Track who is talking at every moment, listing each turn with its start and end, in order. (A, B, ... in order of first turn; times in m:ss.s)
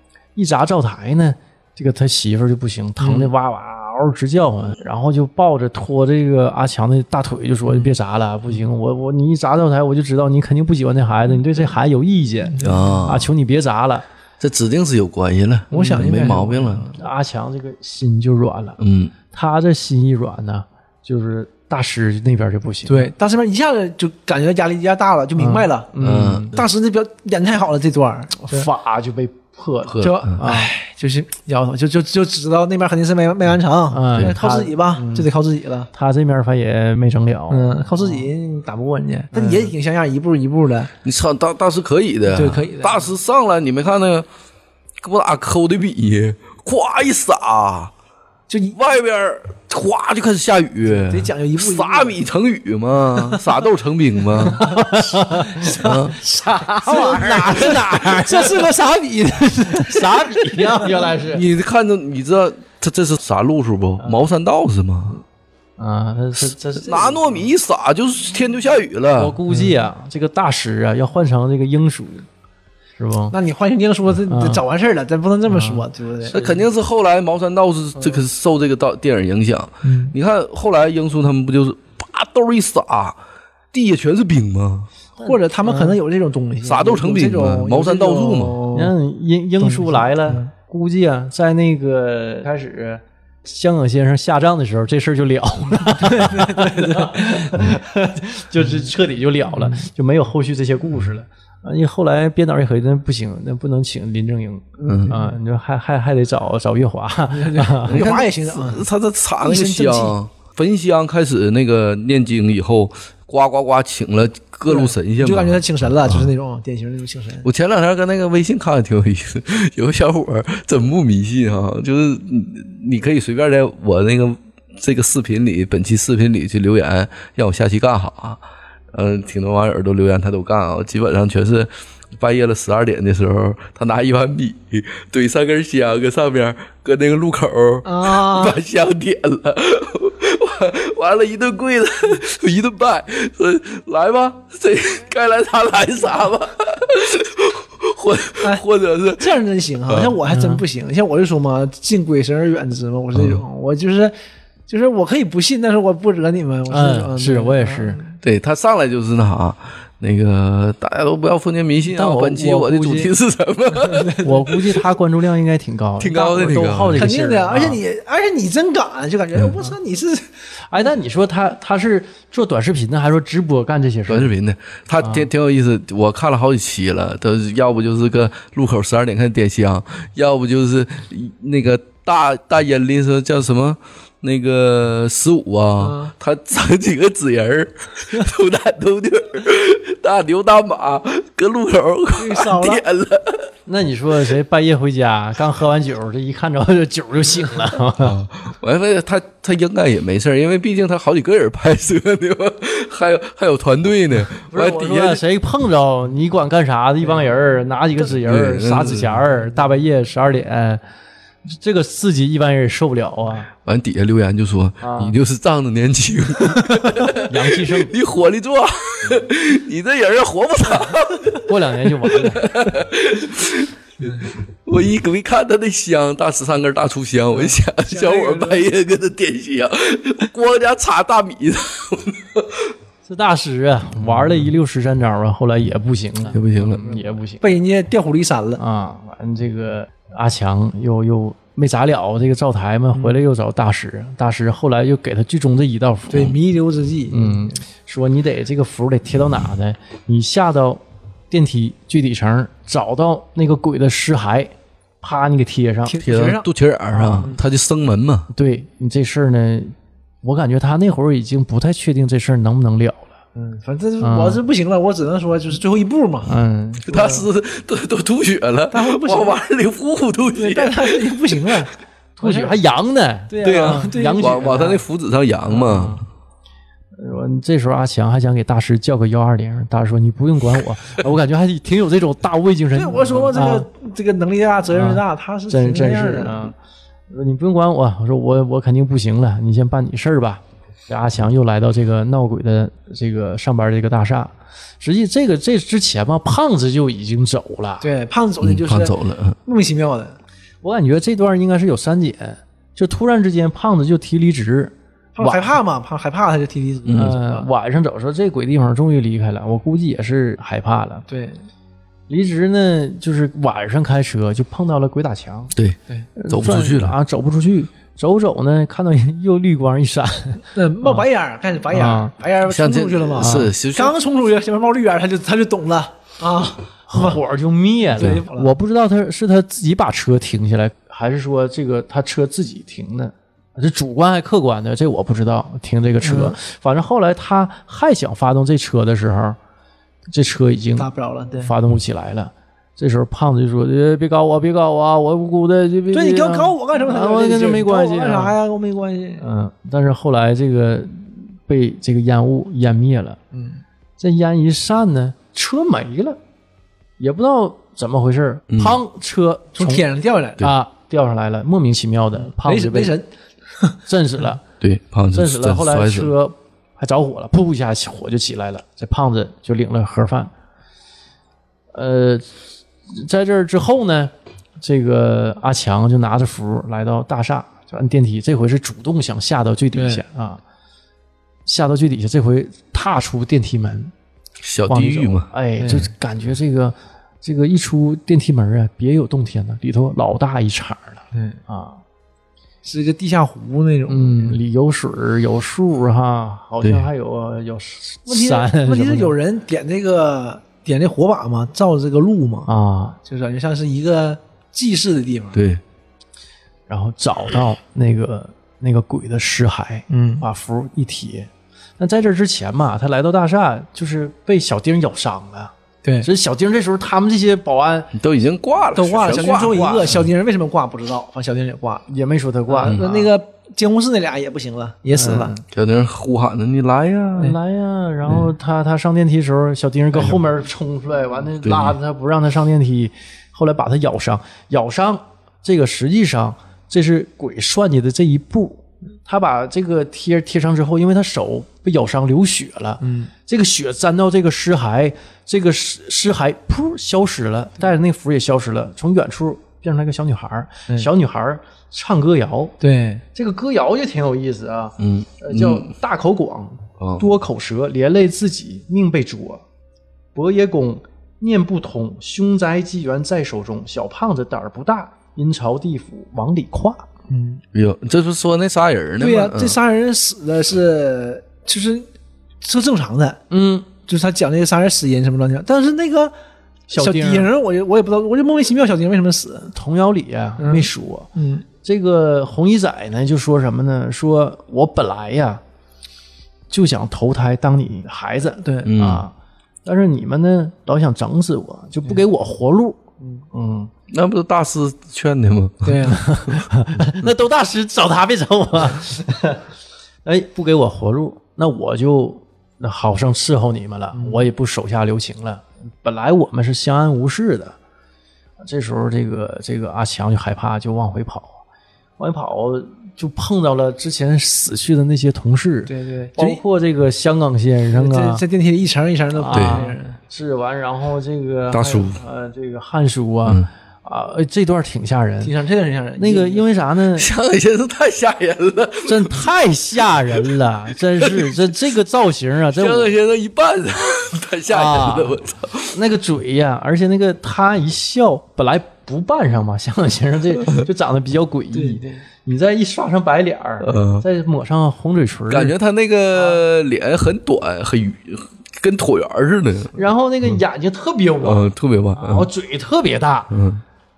0:00.4-0:14.1 A
0:03.0-0:03.3 B
0:12.6-0:13.0 B
0:12.6-0:13.3 C
0:14.4-0:16.9 C
0:15.7-0:16.4 A
0:15.7-0:17.0 B
0:16.9-0:18.8 A
0:18.8-0:19.1 C
0:19.3-0:23.1 A
0:22.9-0:25.9 B
0:25.4-0:26.6 A
0:26.0-0:26.6 C
0:26.5-0:28.7 B
0:28.4-0:30.7 A
0:29.9-0:30.4 C
0:30.0-0:35.9 B
0:33.9-0:35.3 A
0:35.9-0:38.3 A
0:37.5-0:40.9 B
0:39.3-0:39.7 A
0:41.0-0:44.3 C
0:42.3-0:43.1 B
0:45.0-0:47.9 C
0:48.5-0:48.8 B
0:48.7-0:54.7 C
0:50.9-0:52.2 B
0:53.1-0:53.4 B
0:54.4-1:01.1 B
0:54.5-0:55.7 A
0:55.8-0:56.2 C
0:56.4-0:58.7 A
0:59.6-1:01.4 A
1:01.3-1:05.2 C
1:05.8-1:07.4 A
1:06.8-1:09.4 C
1:09.2-1:12.3 A
1:13.0-1:13.4 A
1:13.3-1:16.5 B
1:14.3-1:14.6 A
1:15.5-1:16.5 A
1:16.3-1:23.2 C
1:19.8-1:20.1 B
1:23.7-1:24.9 C
1:25.2-1:26.0 A
1:25.2-1:29.0 B
1:26.6-1:28.6 C
1:28.7-1:48.1 A
1:29.6-1:30.5 B
1:36.0-1:37.5 B
1:44.8-1:45.1 C
1:44.9-1:45.3 B
1:47.3-1:48.9 B
1:47.9-1:56.3 C
1:49.4-1:50.2 B
1:54.7-1:57.5 B
1:57.4-2:08.4 C
2:08.9-2:29.4 C
2:17.8-2:18.6 B
2:29.2-2:34.1 B
2:29.9-2:30.2 C
2:30.3-2:30.6 A
2:33.2-2:33.4 C
2:34.7-2:38.2 B
2:36.7-2:38.0 A
2:38.2-2:44.5 C
2:41.9-2:43.1 A
2:43.8-2:44.4 B
2:44.2-2:47.8 A
2:46.0-2:47.1 C
2:47.0-2:50.3 B
2:50.7-2:54.3 A
2:54.1-3:13.5 C
2:55.0-2:55.3 A
3:05.8-3:06.1 B
3:12.2-3:12.8 B
3:13.7-3:18.2 A
3:18.0-3:25.2 C
3:24.4-3:30.8 A
3:28.1-3:29.1 C
3:31.5-3:33.5 A
3:33.6-3:52.7 C
3:34.8-3:35.2 A
3:37.0-3:37.9 A
3:41.4-3:42.6 A
3:47.5-3:48.7 B
3:53.0-3:57.4 A
3:56.3-3:56.8 C
3:56.8-3:58.6 B
3:58.6-4:06.4 A
4:03.0-4:03.2 B
4:06.1-4:07.5 B
4:07.1-4:16.0 A
4:15.8-4:16.5 B
4:16.0-4:18.3 C
4:16.9-4:17.3 A
4:18.3-4:23.2 A
4:23.4-4:26.3 B
4:24.0-4:24.4 A
4:26.3-4:27.2 A
4:26.9-4:31.2 C
4:28.7-4:29.4 B
4:30.4-4:32.6 B
4:32.2-4:34.8 A
4:33.3-4:34.7 B
4:33.4-4:36.0 C
4:35.5-4:36.0 A
4:37.0-4:43.7 A
4:42.7-4:46.5 B
4:44.7-4:46.5 A
4:47.1-4:57.9 A
4:57.8-5:00.2 B
4:58.4-4:59.4 C
5:00.6-5:05.5 A
5:05.2-5:07.5 B
5:06.8-5:07.2 C
5:06.9-5:11.1 A
5:11.1-5:11.4 B
5:12.1-5:15.5 A
5:16.2-5:21.0 A
5:16.3-5:17.0 C
5:20.6-5:27.2 B
5:21.7-5:22.1 A
5:22.4-5:24.0 C
5:23.2-5:23.5 A
5:26.9-5:39.4 A
5:27.9-5:28.5 B
5:36.0-5:36.4 B
5:40.1-5:48.4 A
5:40.8-5:41.5 B
5:45.9-5:49.2 B
5:49.2-5:53.2 A
5:53.3-5:53.6 B
5:54.0-5:56.2 A
5:57.0-5:59.8 A
5:58.5-5:58.8 C
5:59.6-6:00.4 B
6:00.4-6:03.0 A
6:02.2-6:03.1 B
6:03.9-6:04.4 A
6:04.6-6:06.1 C
6:05.1-6:10.3 A
6:11.7-6:12.4 A
6:12.9-6:20.4 A
6:19.7-6:20.0 B
6:21.5-6:23.9 A
6:24.4-6:25.3 C
6:24.7-6:31.8 A
6:25.6-6:25.9 B
6:32.6-6:34.4 B
6:33.9-6:39.2 A
6:36.6-6:36.9 C
6:38.1-6:42.5 B
6:42.5-6:43.0 A
6:43.0-6:45.4 B
6:45.3-6:45.6 C
6:46.7-6:58.0 A
6:49.9-6:50.2 B
6:57.9-6:59.9 C
6:58.7-7:01.9 B
6:59.1-7:00.0 A
7:01.9-7:03.1 A
7:02.5-7:05.4 B
7:05.0-7:05.4 A
7:05.5-7:07.3 C
7:07.2-7:32.6 A
7:11.4-7:11.8 C
7:22.8-7:23.1 B
7:32.6-7:33.0 B
7:33.2-7:39.4 A
7:34.8-7:35.7 C
7:36.8-7:37.0 C
7:40.2-7:46.9 A
7:47.1-7:47.4 B
7:47.5-7:49.6 C
7:49.0-7:51.9 B
7:52.4-7:53.2 B
7:53.3-7:53.7 A
7:53.9-7:56.1 B
7:56.7-7:57.3 A
7:56.8-7:59.5 B
7:59.5-8:01.1 A
8:00.4-8:01.4 B
8:01.6-8:05.4 A
8:06.5-8:09.1 A
8:08.4-8:08.7 B
8:08.6-8:09.1 C
8:09.6-8:13.7 A
8:13.9-8:16.0 C
8:15.6-8:16.0 B
8:15.9-8:19.4 A
8:20.0-8:27.6 A
8:24.0-8:24.2 B
8:28.4-8:31.4 A
8:32.0-8:38.2 A
8:35.7-8:36.4 B
8:37.7-8:40.0 B
8:39.1-8:45.3 A
8:39.3-8:39.6 C
8:41.5-8:42.0 C
8:45.2-8:46.5 B
8:46.0-8:47.1 A
8:47.0-8:49.3 C
8:48.8-8:52.9 A
8:51.0-8:51.4 C
8:52.5-8:55.8 C
8:54.5-8:55.2 A
8:55.7-9:05.5 A
9:01.5-9:02.0 B
9:03.6-9:04.0 C
9:05.3-9:09.8 C
9:09.8-9:13.3 A
9:11.2-9:12.3 C
9:13.3-9:13.6 C